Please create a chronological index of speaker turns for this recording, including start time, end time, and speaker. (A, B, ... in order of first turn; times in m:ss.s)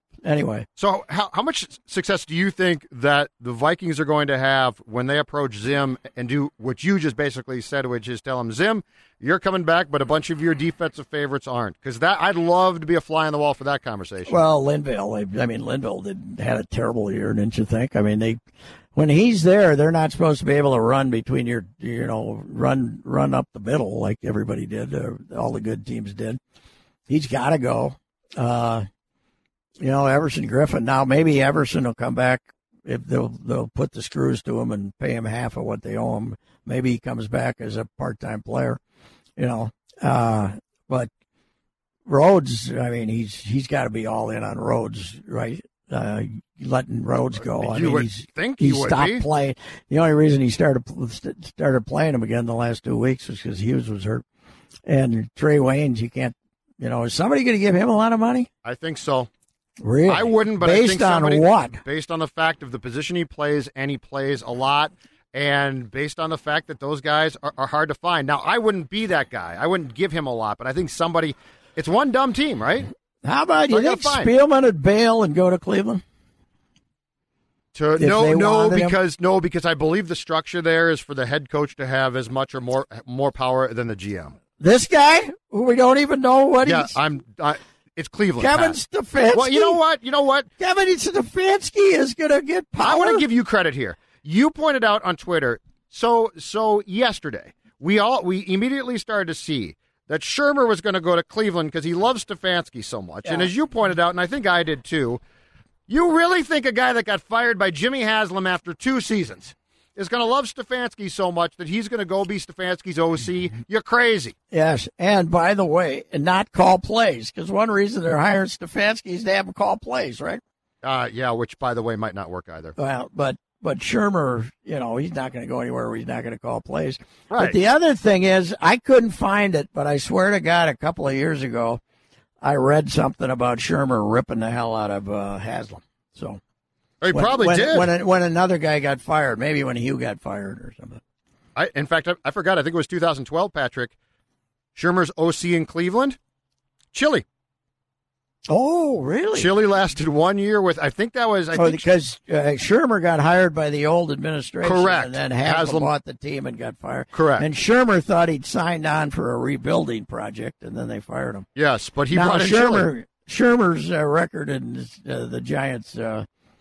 0:00.2-0:00.6 A
0:00.8-0:14.4 B
0:14.3-0:18.4 A
0:18.9-0:26.4 A
0:27.1-0:28.9 A
0:29.8-0:38.8 A
0:39.4-0:41.1 A
0:42.0-0:54.2 A
0:47.6-0:49.2 B
0:54.9-0:58.5 A
0:58.6-0:59.3 B
0:59.8-1:01.8 A
1:00.1-1:12.9 B
1:13.2-1:16.0 A
1:13.7-1:14.3 B
1:17.7-1:24.4 B
1:18.0-1:19.0 A
1:24.6-1:26.9 A
1:26.6-1:28.8 B
1:28.4-1:29.8 A
1:29.3-1:30.5 B
1:30.6-1:33.2 A
1:32.8-1:45.2 B
1:43.2-1:43.5 A
1:45.9-1:54.3 B
1:54.5-2:00.4 A
2:00.8-2:02.7 B
2:02.8-2:11.8 A
2:07.3-2:07.6 B
2:12.4-2:16.4 A
2:17.0-2:17.9 B
2:17.1-2:21.0 A
2:21.5-2:23.9 B
2:24.7-2:26.2 B
2:26.9-2:27.2 B
2:28.5-2:29.5 A
2:29.4-2:31.8 B
2:31.5-2:41.4 A
2:34.6-2:35.9 B
2:37.1-2:37.4 B
2:41.6-2:42.9 B
2:42.1-2:46.2 A